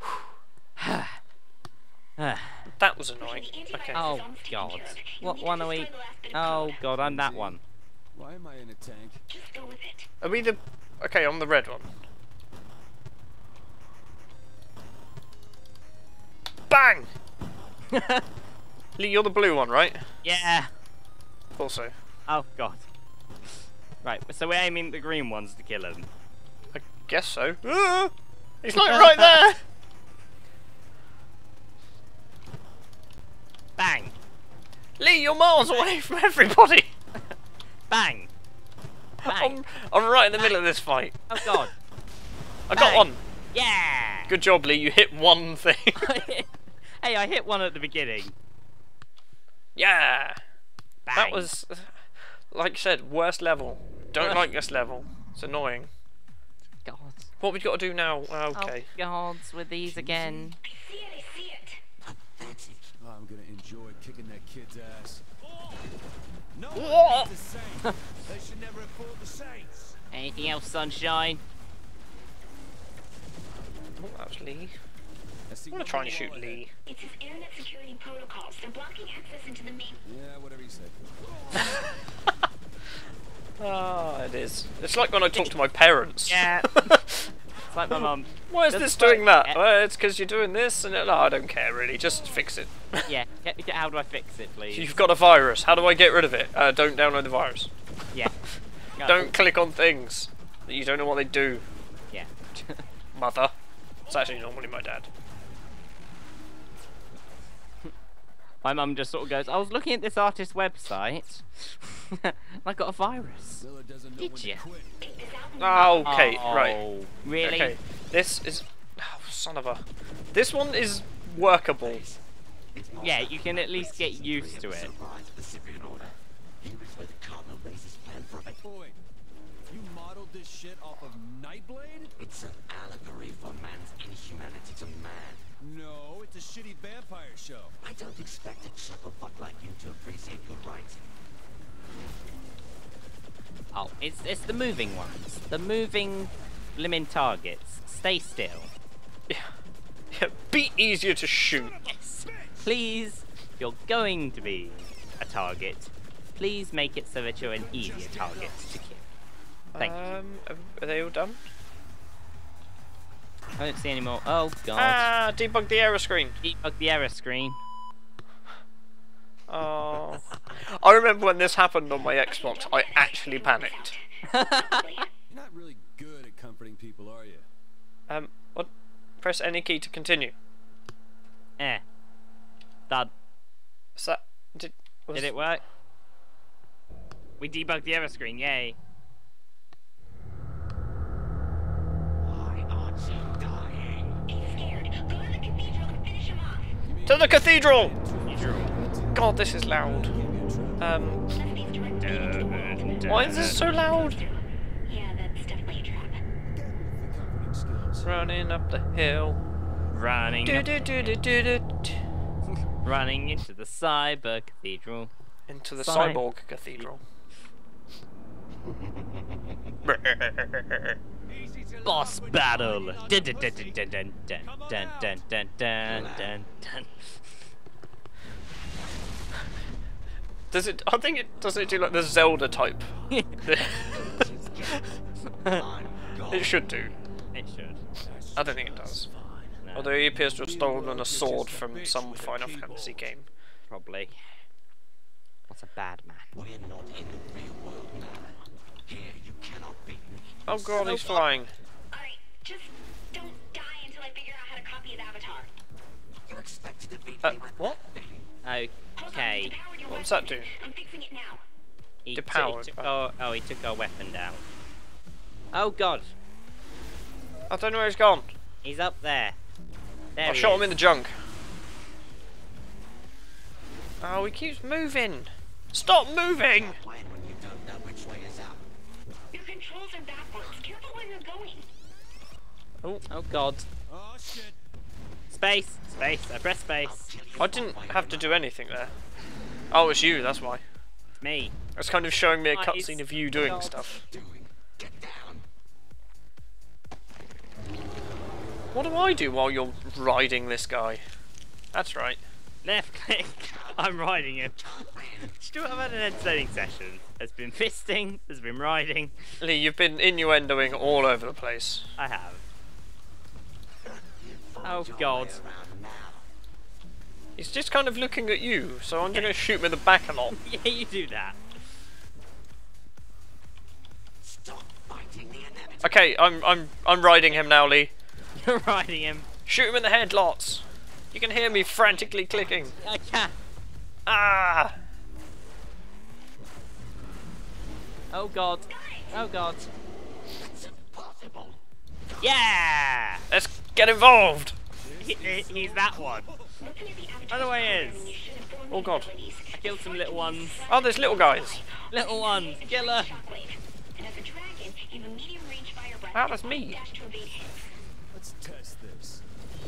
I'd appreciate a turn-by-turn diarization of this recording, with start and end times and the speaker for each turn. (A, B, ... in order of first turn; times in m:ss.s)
0:00.8-0:01.2 A
0:02.2-0:02.7 A
0:02.7-0:04.0 B
0:03.2-0:06.9 C
0:03.9-0:07.6 A
0:06.9-0:07.6 D
0:08.1-0:09.2 D
0:09.3-0:10.1 C
0:10.2-0:11.9 B
0:16.7-0:17.1 B
0:17.9-0:18.2 A
0:19.0-0:20.0 B
0:20.2-0:20.7 A
0:21.6-0:21.9 B
0:22.3-0:22.8 A
0:24.0-0:26.1 A
0:26.7-0:29.6 B
0:28.8-0:29.4 A
0:33.8-0:34.1 A
0:35.0-0:36.9 B
0:37.9-0:38.3 A
0:39.2-0:39.6 A
0:39.2-0:41.6 B
0:41.3-0:41.7 A
0:42.7-0:43.2 B
0:42.7-0:44.3 A
0:44.3-0:46.0 B
0:46.0-0:48.3 A
0:49.8-0:50.4 B
0:51.0-0:51.5 A
0:51.1-0:52.0 B
0:52.5-0:55.9 B
0:54.2-0:54.5 A
0:56.8-0:57.3 A
0:57.4-0:58.9 B
0:58.5-1:00.6 A
0:59.8-1:00.5 D
1:00.6-1:01.8 C
1:03.0-1:05.8 D
1:06.5-1:10.0 D
1:06.7-1:07.3 B
1:10.1-1:11.4 A
1:14.0-1:14.7 B
1:15.5-1:16.7 D
1:15.7-1:16.7 B
1:16.8-1:20.0 C
1:20.0-1:21.8 D
1:21.6-1:21.9 B
1:23.6-1:27.3 B
1:26.2-1:26.9 A
1:27.7-1:29.6 A
1:27.9-1:33.1 B
1:33.0-1:35.0 A
1:34.7-1:37.7 B
1:39.0-1:39.3 A
1:39.0-1:41.6 B
1:42.1-1:42.8 A
1:43.1-1:43.5 B
1:44.1-1:45.1 B
1:48.6-1:53.6 A
1:53.6-1:55.0 D
1:54.2-1:54.6 A
1:55.0-1:56.3 C
1:55.6-1:56.8 B
1:56.0-1:57.8 A
1:57.4-1:59.8 B
2:00.3-2:02.0 B
2:03.0-2:04.9 A
2:05.0-2:06.1 E
2:06.8-2:08.3 E
2:08.6-2:09.0 D
2:09.7-2:12.1 D
2:12.3-2:15.2 E
2:15.6-2:17.7 D
2:17.9-2:20.9 E
2:23.7-2:28.7 A
2:30.1-2:31.9 B
2:31.9-2:32.6 D
2:32.6-2:39.0 A
2:37.4-2:38.7 D
2:39.7-2:41.4 B
2:43.6-2:45.1 A
2:44.8-2:46.4 B
2:46.4-2:47.6 A
2:49.5-2:53.9 B
2:52.2-2:55.1 C
2:54.3-2:55.0 A
2:55.3-2:57.4 D
2:58.1-2:58.7 B
2:59.2-3:00.3 B
3:01.6-3:01.8 A
3:04.0-3:05.3 B
3:05.1-3:05.6 A
3:07.4-3:08.8 A
3:14.3-3:16.8 C
3:16.8-3:21.1 D
3:17.0-3:17.9 B
3:18.2-3:18.7 A
3:19.1-3:20.1 B
3:20.8-3:21.3 B
3:21.3-3:26.2 C
3:22.0-3:23.6 A
3:23.0-3:24.2 B
3:26.4-3:28.3 D
3:28.0-3:29.4 B
3:29.9-3:31.2 A
3:30.4-3:32.0 B
3:32.8-3:35.1 A
3:35.5-3:37.0 B
3:35.8-3:36.2 A
3:39.8-3:40.8 B
3:41.3-3:43.8 D
3:41.8-3:47.0 A
3:44.4-3:45.2 D
3:50.5-3:55.0 B
3:53.1-3:53.4 A
3:55.3-3:55.7 A
3:56.2-3:56.9 B
3:57.3-3:57.8 A
3:58.0-3:59.6 D
3:58.4-3:59.1 B
3:59.6-4:00.0 A
3:59.7-4:03.3 B
4:00.3-4:03.1 D
4:03.7-4:04.2 A
4:05.5-4:06.3 A
4:06.5-4:08.1 E
4:08.9-4:10.0 E
4:10.4-4:11.5 B
4:10.7-4:11.3 A
4:11.9-4:15.5 C
4:16.3-4:17.2 E
4:17.2-4:17.8 B
4:18.4-4:19.5 A
4:19.0-4:21.4 C
4:19.9-4:20.5 B
4:22.0-4:24.4 A
4:22.1-4:22.9 B
4:25.5-4:26.1 A
4:27.5-4:28.3 B
4:28.6-4:29.4 A
4:30.2-4:30.7 A
4:30.2-4:31.1 B
4:34.0-4:36.8 B
4:36.9-4:38.6 E
4:39.3-4:41.7 C
4:43.1-4:43.6 A
4:43.9-4:44.6 D
4:45.3-4:47.1 A
4:47.4-4:48.9 B
4:49.7-4:50.6 B
4:51.2-4:51.5 A
4:51.8-4:54.0 B
4:52.5-4:53.9 A
4:54.2-4:55.4 E
4:58.7-5:01.0 B
5:01.7-5:02.2 B
5:02.6-5:04.6 A
5:05.2-5:09.2 A
5:09.4-5:11.9 B
5:12.0-5:12.4 A
5:14.6-5:15.4 A
5:15.4-5:16.1 E
5:17.4-5:20.3 B
5:20.3-5:21.4 A
5:24.5-5:25.8 E
5:25.8-5:27.9 B
5:28.4-5:29.3 A
5:29.4-5:32.8 B
5:32.8-5:33.3 A
5:34.1-5:34.7 B
5:38.1-5:39.7 A
5:38.7-5:39.2 C
5:40.9-5:41.5 E
5:42.2-5:43.2 A
5:43.3-5:44.6 B
5:44.8-5:46.5 D
5:45.0-5:46.3 A
5:46.6-5:57.7 C
5:47.3-5:48.1 A
5:48.7-5:49.1 B
5:49.5-5:50.6 A
5:50.7-5:51.6 B
5:51.9-5:53.2 A
5:56.1-5:56.8 B
5:58.1-5:59.2 D